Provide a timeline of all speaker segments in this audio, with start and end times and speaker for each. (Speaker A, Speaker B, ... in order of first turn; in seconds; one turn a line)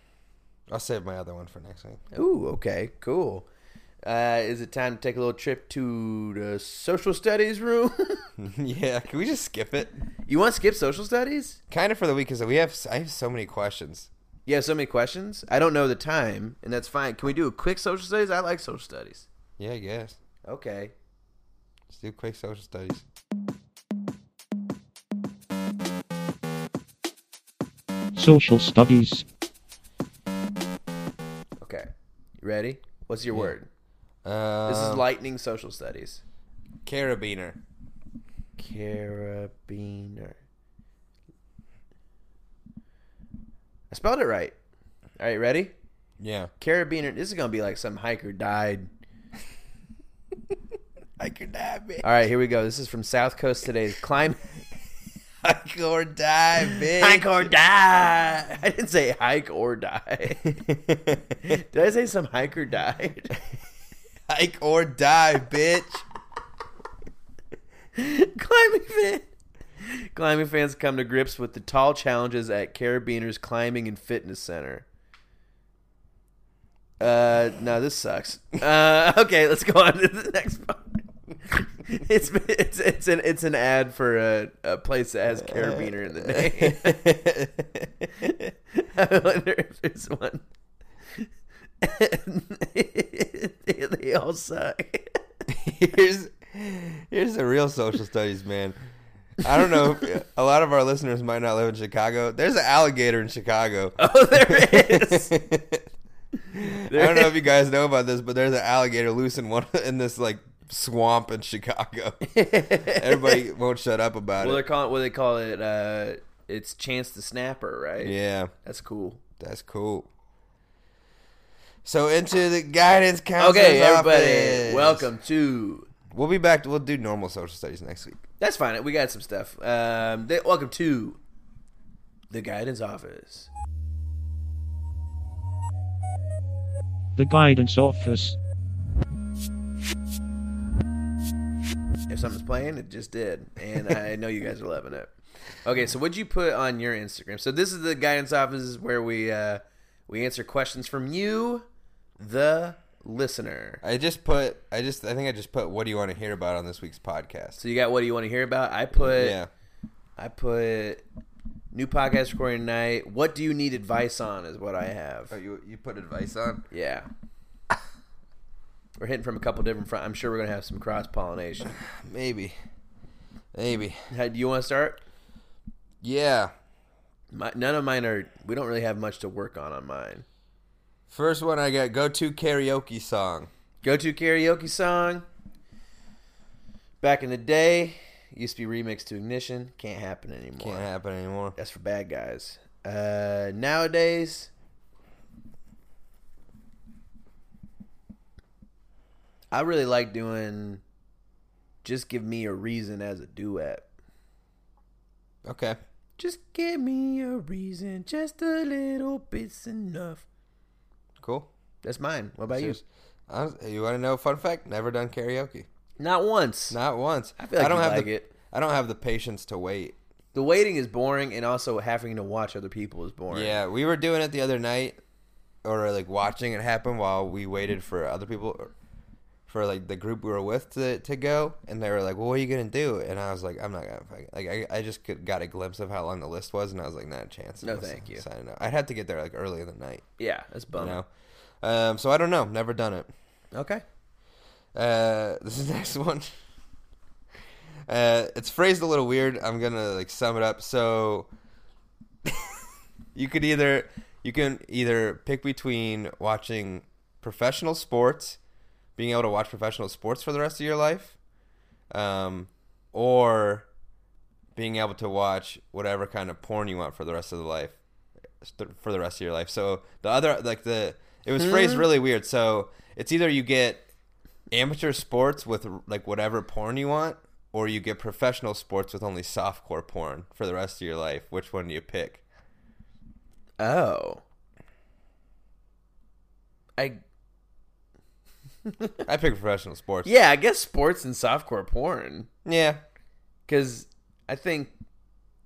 Speaker A: 0.7-2.0
Speaker B: 2.1-3.5
Speaker B: 4.0-8.3
Speaker A: 8.4-10.0
Speaker B: 10.3-11.6
Speaker A: 11.7-14.1
Speaker B: 14.4-19.3
Speaker A: 19.6-20.2
Speaker B: 20.4-20.9
Speaker A: 21.9-23.0
Speaker C: 28.1-29.2
Speaker B: 31.6-33.7
Speaker A: 34.2-35.0
Speaker B: 34.7-36.2
Speaker A: 36.8-37.6
Speaker B: 38.6-40.4
Speaker B: 43.9-44.5
Speaker B: 45.2-45.7
Speaker A: 46.2-46.5
Speaker B: 46.6-48.9
Speaker A: 51.2-52.0
Speaker B: 52.0-54.5
Speaker A: 55.4-57.4
Speaker B: 56.7-60.5
Speaker A: 60.4-61.5
Speaker B: 61.4-63.4
Speaker A: 64.3-66.0
Speaker B: 67.9-69.3
Speaker B: 69.8-74.8
Speaker B: 77.0-87.1
Speaker A: 85.5-88.3
Speaker B: 88.7-90.4
Speaker B: 91.8-95.2
Speaker A: 95.5-98.8
Speaker A: 99.4-105.9
Speaker B: 104.0-105.3
Speaker A: 106.5-114.6
Speaker B: 106.9-107.3
Speaker B: 112.2-113.4
Speaker B: 114.4-119.2
Speaker A: 118.0-118.5
Speaker A: 119.4-120.1
Speaker A: 121.8-125.1
Speaker B: 123.4-125.9
Speaker A: 126.1-128.2
Speaker B: 128.4-131.2
Speaker B: 132.3-133.5
Speaker C: 137.2-138.4
Speaker B: 142.1-145.1
Speaker B: 145.6-151.6
Speaker B: 152.2-153.8
Speaker A: 153.8-157.6
Speaker B: 157.6-159.3
Speaker A: 158.9-159.5
Speaker B: 160.2-161.0
Speaker B: 161.7-165.3
Speaker A: 165.3-166.6
Speaker B: 166.7-167.1
Speaker B: 169.0-171.8
Speaker A: 171.7-172.6
Speaker A: 173.5-174.0
Speaker B: 174.1-175.0
Speaker A: 176.0-176.5
Speaker B: 177.3-180.2
Speaker A: 181.1-183.5
Speaker B: 183.8-185.2
Speaker B: 187.0-190.8
Speaker A: 190.6-191.6
Speaker B: 191.6-194.5
Speaker B: 199.5-200.8
Speaker B: 201.8-203.9
Speaker A: 205.4-205.8
Speaker B: 206.2-210.2
Speaker A: 211.2-211.5
Speaker B: 211.8-212.8
Speaker A: 212.5-215.7
Speaker B: 216.0-216.8
Speaker A: 216.7-219.9
Speaker B: 217.4-218.3
Speaker B: 220.3-223.6
Speaker A: 223.3-225.0
Speaker A: 225.6-228.7
Speaker A: 229.5-240.1
Speaker B: 237.6-238.2
Speaker B: 240.2-241.0
Speaker A: 240.8-241.1
Speaker A: 241.6-243.1
Speaker B: 243.5-243.8
Speaker A: 244.7-246.3
Speaker A: 247.9-251.3
Speaker A: 252.2-252.6
Speaker A: 253.1-258.4
Speaker A: 259.0-261.1
Speaker A: 261.9-263.7
Speaker A: 264.6-267.8
Speaker A: 268.4-273.9
Speaker B: 271.4-271.8
Speaker A: 274.5-282.2
Speaker B: 283.6-284.2
Speaker B: 288.6-289.0
Speaker A: 289.1-290.1
Speaker B: 290.0-292.3
Speaker A: 292.4-292.8
Speaker B: 293.5-294.7